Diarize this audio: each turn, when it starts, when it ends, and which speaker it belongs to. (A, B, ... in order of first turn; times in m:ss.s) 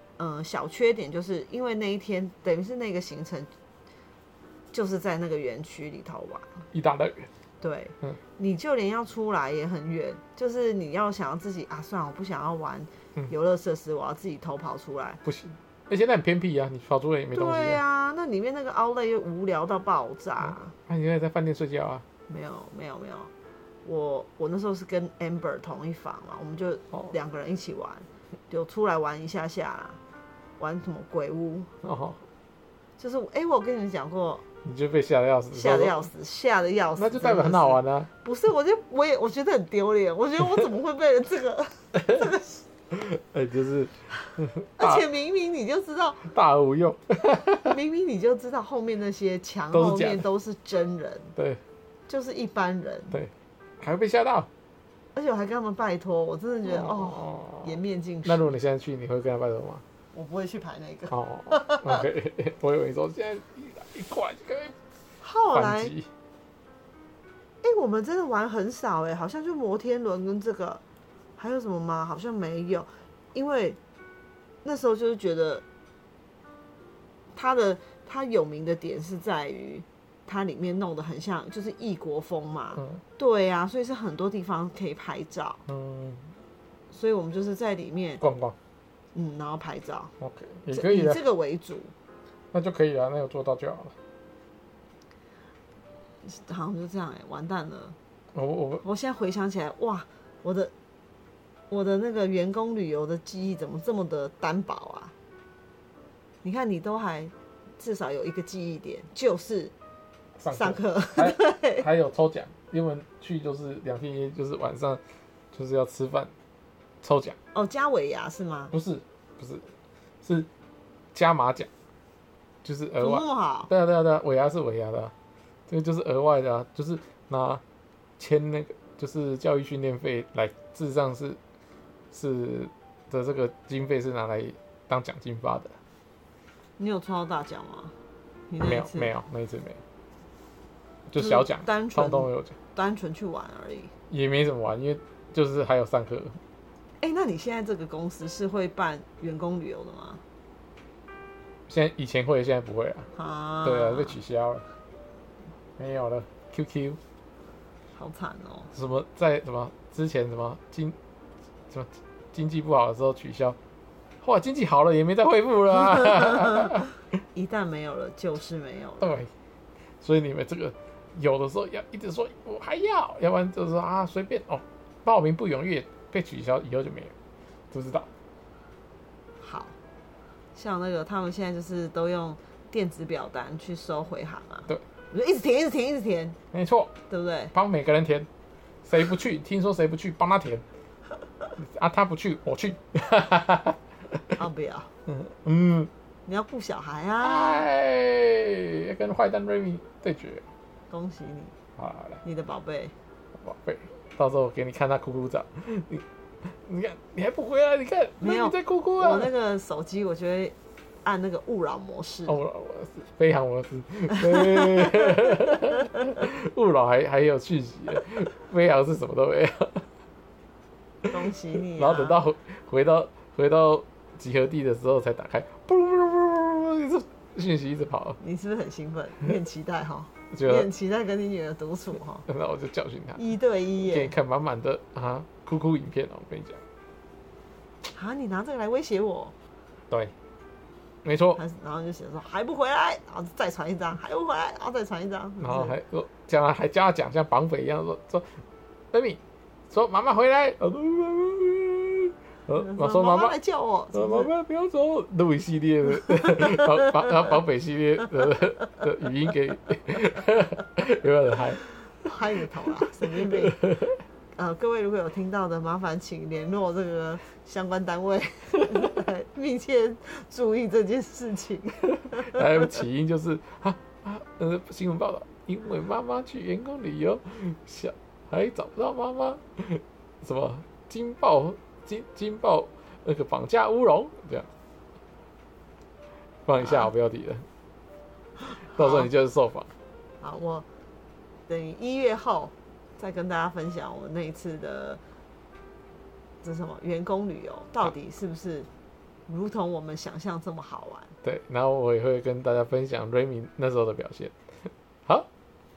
0:00.2-0:03.5 A
0:04.7-0:06.6 A
0:06.7-0:07.3 B
0:07.6-0:15.2 A
0:15.2-0:17.8 B
0:17.3-0:20.7 A
0:20.5-0:22.0 B
0:22.3-0:23.3 A
0:23.8-0:30.0 A
0:30.6-0:31.7 A
0:31.8-0:32.2 B
0:33.0-0:34.4 A
0:34.6-0:36.1 B
0:35.5-0:42.6 A
0:37.0-0:38.1 B
0:42.9-0:45.0 B
0:44.8-0:46.2 A
0:46.2-0:47.8 B
0:47.6-0:51.3 A
0:49.7-0:50.3 B
0:51.4-0:51.6 B
0:52.1-0:53.2 A
0:53.1-0:54.5 B
0:55.2-0:58.5 A
0:56.7-0:59.8 B
1:00.1-1:02.0 A
1:01.1-1:04.8 B
1:05.2-1:05.9 A
1:05.5-1:06.1 B
1:07.6-1:10.8 A
1:11.4-1:13.8 A
1:14.6-1:15.6 A
1:17.3-1:25.6 A
1:22.8-1:23.0 B
1:25.7-1:26.3 B
1:26.9-1:28.2 A
1:28.2-1:28.6 B
1:29.2-1:30.1 A
1:30.2-1:31.2 B
1:30.7-1:31.9 A
1:32.5-1:34.0 B
1:36.2-1:38.0 A
1:38.3-1:38.8 B
1:38.8-1:40.7 A
1:41.7-1:45.1 A
1:46.4-1:49.7 A
1:50.4-1:55.0 B
1:50.5-1:51.8 A
1:55.5-1:56.3 B
1:57.0-1:57.4 B
1:57.5-1:58.7 A
1:58.7-1:59.6 B
2:00.2-2:00.5 B
2:01.1-2:01.7 B
2:02.6-2:05.1 B
2:03.0-2:03.7 A
2:05.7-2:07.6 B
2:08.2-2:11.4 B
2:12.1-2:15.8 B
2:16.8-2:17.9 A
2:18.5-2:19.1 A
2:18.6-2:19.8 B
2:21.1-2:22.6 B
2:21.2-2:23.9 A
2:24.1-2:26.4 B
2:27.0-2:30.2 A
2:31.7-2:33.1 B
2:33.2-2:34.2 A
2:33.6-2:34.6 B
2:35.8-2:37.0 B
2:38.0-2:38.7 A
2:38.7-2:41.0 B
2:41.7-2:43.6 B
2:44.2-2:46.9 B
2:45.9-2:49.2 A
2:49.0-2:49.3 B
2:50.0-2:57.1 B
2:57.7-2:58.1 B
2:59.4-2:59.8 A
3:00.6-3:06.4 A
3:06.5-3:07.0 B
3:07.1-3:07.5 A
3:07.5-3:08.3 B
3:08.8-3:10.6 B
3:11.6-3:14.3 B
3:14.4-3:14.9 A
3:15.1-3:15.9 B
3:16.3-3:17.7 A
3:17.2-3:20.4 B
3:20.9-3:21.5 A
3:21.8-3:22.2 B
3:22.2-3:22.9 A
3:23.4-3:29.3 B
3:28.2-3:32.4 A
3:32.3-3:39.9 B
3:34.3-3:36.0 A
3:41.1-3:42.2 A
3:41.8-3:48.2 B
3:48.2-3:52.3 A
3:50.3-3:50.7 B
3:52.3-3:53.2 B
3:53.2-3:54.1 A
3:53.8-3:56.6 B
3:57.9-3:59.3 A
4:01.0-4:01.4 B
4:01.4-4:05.8 A
4:05.4-4:08.4 B
4:08.9-4:13.4 B
4:12.6-4:14.3 A
4:13.9-4:21.6 B
4:16.2-4:17.1 A
4:22.0-4:23.7 A
4:23.2-4:24.0 B
4:24.4-4:32.6 A
4:32.1-4:44.5 B
4:46.5-4:47.5 B
4:48.5-4:49.1 A
4:48.6-4:49.7 B
4:50.2-4:50.7 A
4:51.5-4:55.0 A
4:56.4-4:58.7 A
4:59.3-5:01.1 A
5:01.2-5:05.3 B